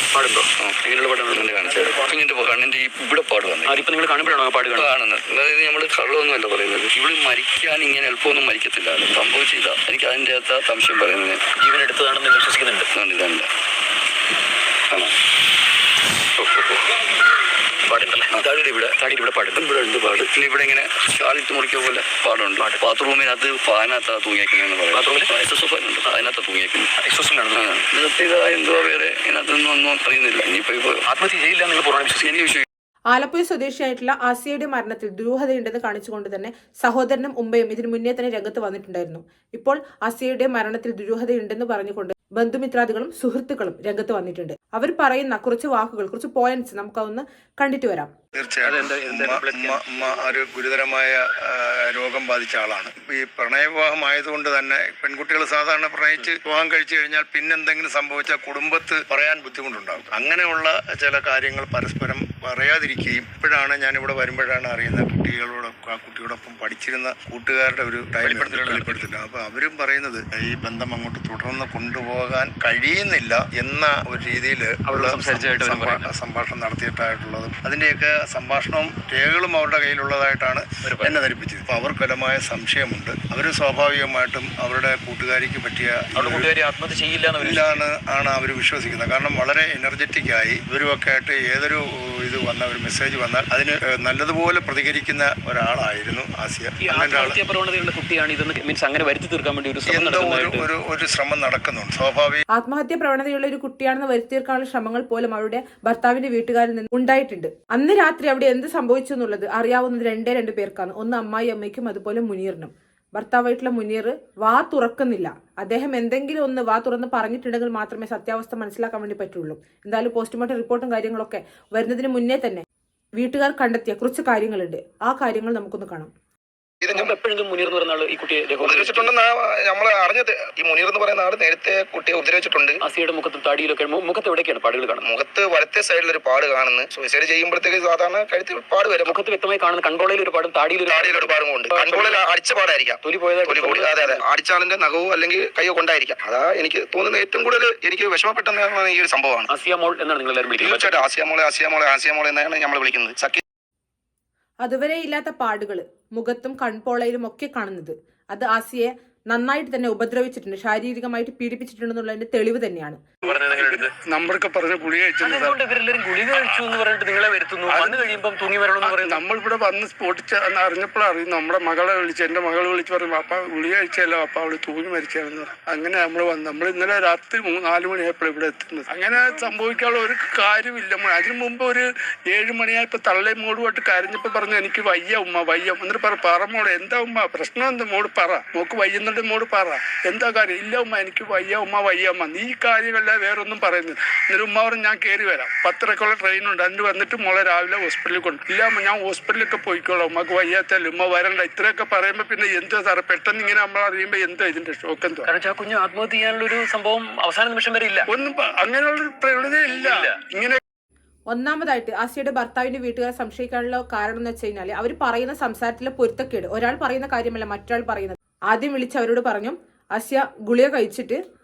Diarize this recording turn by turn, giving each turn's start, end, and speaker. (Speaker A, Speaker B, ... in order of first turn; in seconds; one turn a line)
Speaker A: 0.1-1.6
Speaker B: 0.6-3.9
Speaker A: 3.6-4.9
Speaker B: 4.7-11.4
Speaker A: 11.6-12.9
Speaker B: 12.9-13.5
Speaker A: 16.4-16.8
Speaker A: 17.9-20.1
Speaker B: 18.3-18.9
Speaker B: 19.6-26.9
Speaker A: 24.9-25.3
Speaker A: 27.0-27.8
Speaker B: 27.5-31.0
Speaker A: 31.1-32.5
Speaker B: 32.2-32.6
Speaker C: 33.1-48.1
Speaker D: 48.3-86.5
Speaker C: 48.9-49.8
Speaker B: 68.2-68.8
Speaker C: 74.9-76.0
Speaker A: 86.2-87.8
Speaker D: 87.3-97.4
Speaker A: 96.8-100.7
Speaker D: 99.9-102.4
Speaker C: 102.5-122.6
Speaker C: 123.2-126.1
Speaker E: 126.8-127.2
Speaker A: 126.9-129.1
Speaker E: 128.6-132.8
Speaker A: 132.8-135.1
Speaker E: 135.0-139.2
Speaker A: 139.1-142.2
Speaker E: 140.8-149.5
Speaker A: 143.0-144.2
Speaker A: 149.5-151.1
Speaker E: 150.5-153.4
Speaker C: 154.6-163.0
Speaker F: 163.2-165.6
Speaker A: 163.2-163.9
Speaker A: 165.2-169.2
Speaker F: 167.7-168.2
Speaker F: 168.8-205.3
Speaker A: 205.2-208.1
Speaker F: 208.1-210.6
Speaker A: 209.8-210.2
Speaker C: 211.3-221.2